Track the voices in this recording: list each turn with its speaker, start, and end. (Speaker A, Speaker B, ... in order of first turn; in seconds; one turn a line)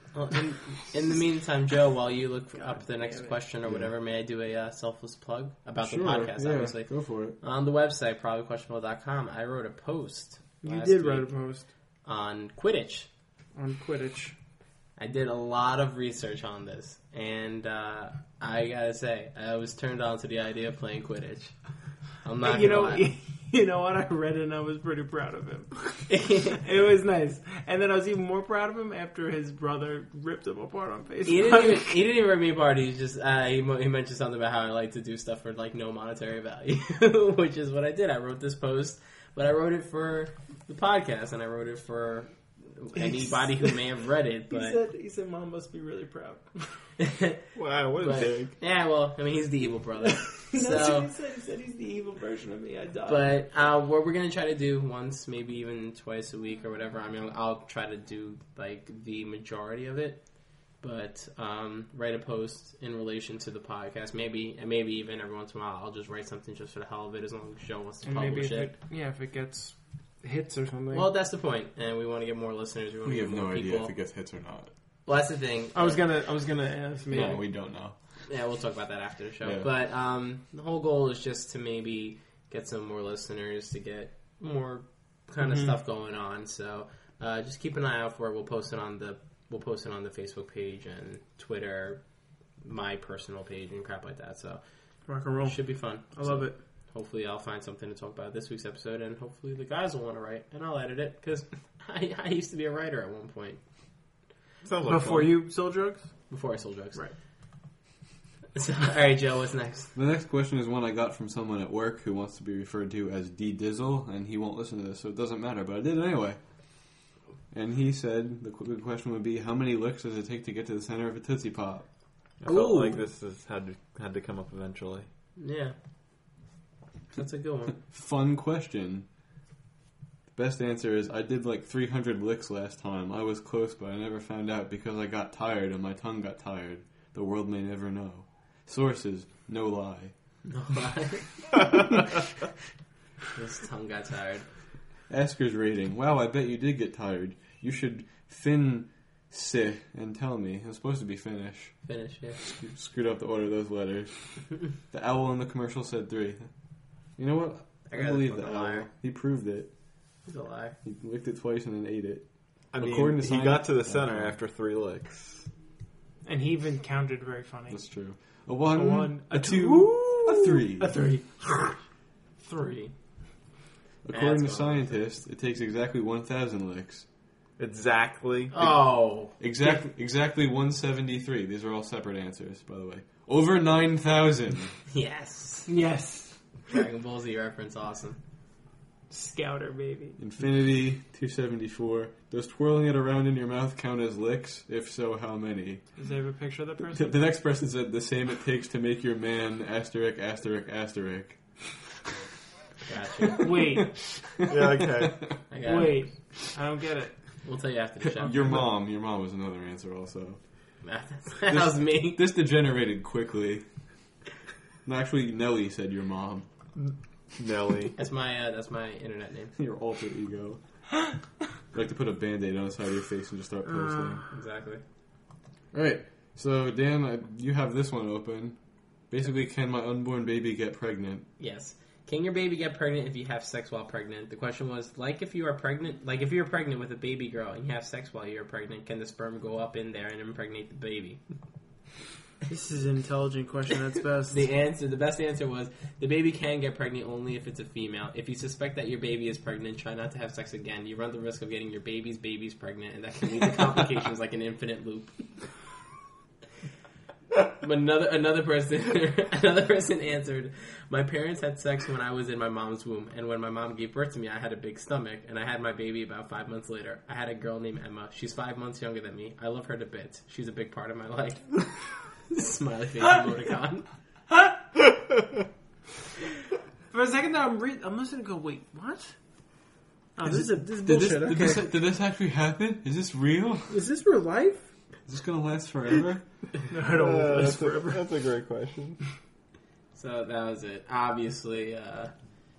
Speaker A: 0.1-11.3
Speaker B: 5.8-7.4
Speaker C: 10.6-11.7
Speaker A: 12.1-13.1
Speaker C: 13.6-14.3
Speaker A: 15.0-21.6
Speaker A: 22.2-23.1
Speaker C: 22.4-31.9
Speaker A: 26.1-26.6
Speaker A: 31.3-44.8
Speaker C: 43.0-43.8
Speaker C: 44.5-46.8
Speaker A: 47.0-47.4
Speaker D: 47.5-48.5
Speaker A: 48.0-51.1
Speaker C: 50.0-53.4
Speaker A: 53.0-68.7
Speaker C: 68.0-71.1
Speaker A: 70.9-73.9
Speaker B: 73.0-74.7
Speaker A: 75.1-76.0
Speaker C: 75.7-77.4
Speaker B: 77.1-78.0
Speaker A: 77.1-77.5
Speaker A: 78.3-92.0
Speaker B: 79.4-79.7
Speaker C: 85.4-85.7
Speaker A: 92.6-103.6
Speaker C: 95.1-96.6
Speaker D: 104.6-105.4
Speaker C: 104.9-106.3
Speaker A: 106.3-107.1
Speaker A: 108.5-109.9
Speaker B: 110.0-116.4
Speaker B: 117.5-121.9
Speaker D: 122.4-125.1
Speaker A: 122.5-123.0
Speaker A: 125.4-125.8
Speaker A: 127.1-127.8
Speaker B: 127.9-129.1
Speaker B: 130.3-140.1
Speaker A: 140.5-142.0
Speaker A: 143.3-144.5
Speaker B: 145.1-151.8
Speaker A: 151.9-152.4
Speaker B: 152.4-156.5
Speaker B: 157.2-159.7
Speaker A: 157.9-158.9
Speaker A: 160.2-160.8
Speaker B: 160.8-162.3
Speaker D: 162.7-165.5
Speaker B: 162.8-164.3
Speaker C: 166.2-167.8
Speaker B: 167.7-170.9
Speaker C: 168.7-171.8
Speaker A: 172.4-172.9
Speaker B: 174.0-177.1
Speaker A: 174.1-175.0
Speaker D: 177.6-178.7
Speaker A: 178.5-179.4
Speaker B: 179.4-184.8
Speaker A: 184.9-185.7
Speaker C: 185.7-186.4
Speaker A: 186.7-188.2
Speaker C: 189.1-190.2
Speaker B: 190.2-195.9
Speaker C: 196.0-197.2
Speaker B: 196.9-201.9
Speaker A: 202.9-203.8
Speaker C: 203.4-203.9
Speaker B: 203.4-205.4
Speaker D: 204.5-205.3
Speaker A: 205.5-206.2
Speaker C: 205.6-207.4
Speaker A: 207.4-208.7
Speaker B: 208.0-210.4
Speaker A: 210.8-212.2
Speaker B: 211.5-213.7
Speaker B: 214.8-216.5
Speaker D: 216.8-217.9
Speaker A: 218.0-219.6
Speaker B: 219.6-220.6
Speaker B: 221.7-224.2
Speaker C: 223.7-224.3
Speaker A: 224.3-224.8
Speaker B: 225.7-231.3
Speaker A: 231.4-241.2
Speaker C: 242.5-244.5
Speaker A: 244.3-255.3
Speaker A: 257.5-273.9
Speaker C: 276.9-279.1
Speaker C: 280.1-281.8
Speaker B: 280.2-283.8
Speaker C: 283.7-284.7
Speaker B: 285.1-286.2
Speaker C: 286.7-288.0
Speaker D: 286.9-289.0
Speaker A: 289.9-292.1